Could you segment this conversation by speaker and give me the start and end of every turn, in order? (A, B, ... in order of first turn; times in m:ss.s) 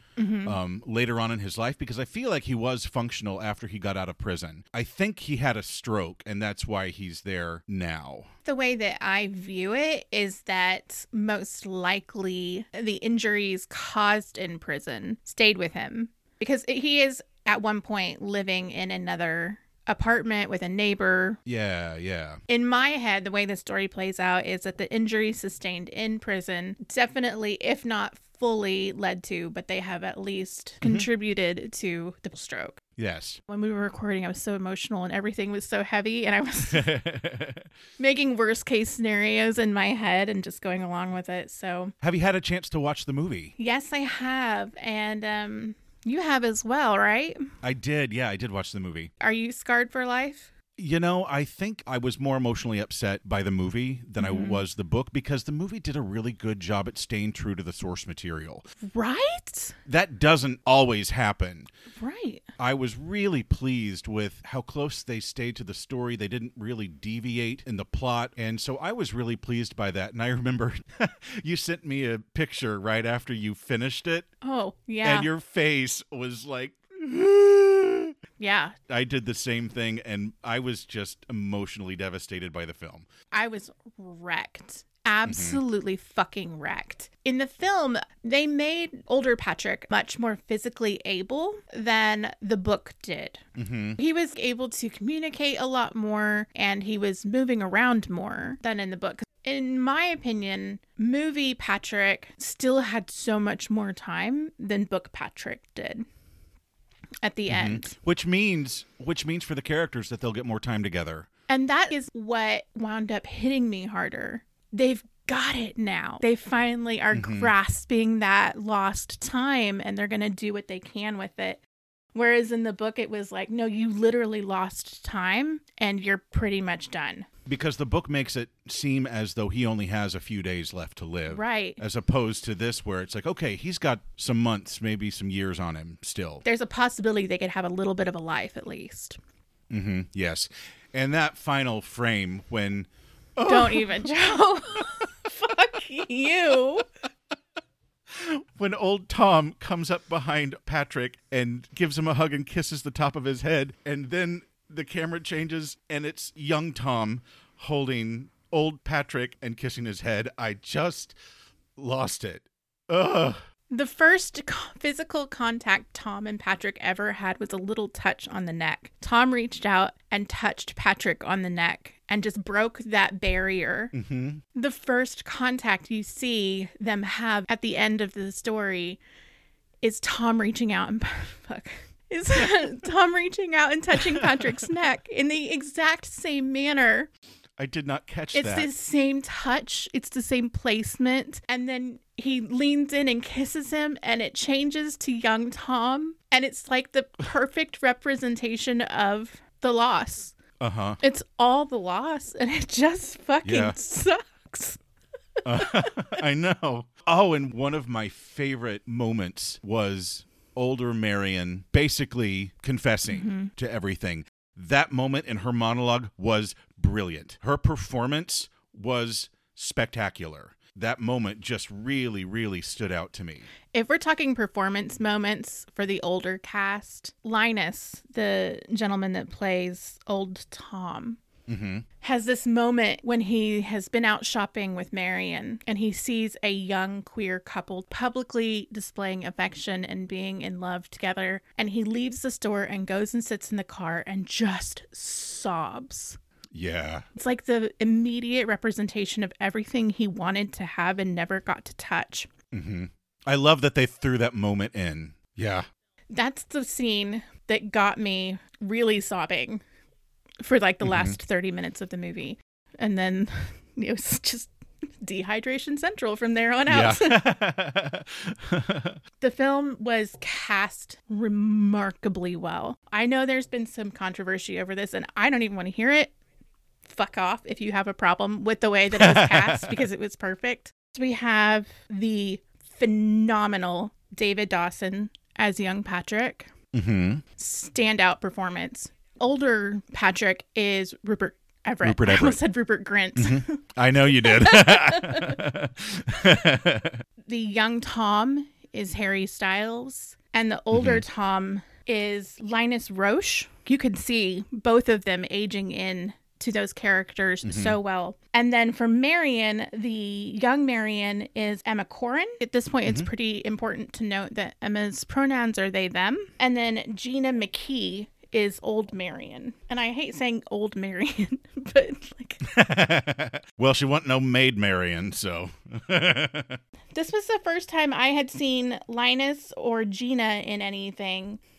0:00.2-0:00.6 A
0:00.4-0:08.3 B
0:08.4-0:21.4 A
0:21.5-0:22.4 B
0:22.5-0:32.8 A
0:30.8-0:31.1 B
0:33.0-0:33.4 B
0:33.5-0:36.9 A
0:36.7-0:37.7 B
0:38.0-0:41.9 A
0:42.0-0:43.6 B
0:43.6-0:47.5 A
0:47.6-0:49.1 B
0:49.2-0:50.5 A
0:50.8-0:58.7 B
0:54.2-0:54.6 A
0:58.8-0:59.8 A
0:59.9-1:01.7 B
1:02.0-1:02.4 A
1:02.6-1:14.3 B
1:14.4-1:15.3 A
1:15.0-1:18.1 B
1:18.4-1:18.8 A
1:18.9-1:23.1 B
1:23.3-1:33.4 A
1:25.3-1:25.6 B
1:33.6-1:34.0 B
1:34.0-1:46.0 A
1:47.2-1:48.0 A
1:47.5-1:51.3 B
1:51.5-2:01.6 A
1:57.1-1:57.5 B
2:02.1-2:07.3 A
2:07.5-2:16.4 B
2:11.3-2:11.8 A
2:16.4-2:19.2 A
2:19.7-2:24.1 B
2:23.4-2:26.8 A
2:28.1-2:41.2 B
2:41.8-2:43.4 B
2:43.7-2:53.9 A
2:53.9-2:54.4 B
2:54.6-2:59.0 A
2:59.8-3:07.1 A
3:04.0-3:04.7 B
3:07.6-3:08.7 B
3:08.3-3:20.4 A
3:20.6-3:21.0 B
3:21.0-3:24.8 A
3:23.4-3:23.8 B
3:25.4-3:26.2 A
3:25.4-3:43.5 B
3:33.1-3:33.5 A
3:43.7-3:51.2 A
3:51.5-3:51.9 B
3:52.0-4:06.2 A
4:06.6-4:07.1 B
4:07.2-4:12.3 A
4:12.5-4:15.7 B
4:16.1-4:19.6 A
4:20.4-4:27.2 A
4:20.8-4:21.2 B
4:26.7-4:29.0 B
4:29.2-4:36.1 A
4:36.8-4:46.5 A
4:38.9-4:39.8 B
4:46.7-4:47.2 B
4:47.4-4:53.6 A
4:51.8-4:52.4 B
4:53.2-4:57.0 B
4:54.1-4:55.4 A
4:57.3-5:22.5 A
5:00.7-5:01.0 B
5:07.4-5:07.8 B
5:22.4-5:26.6 B
5:27.0-5:31.4 A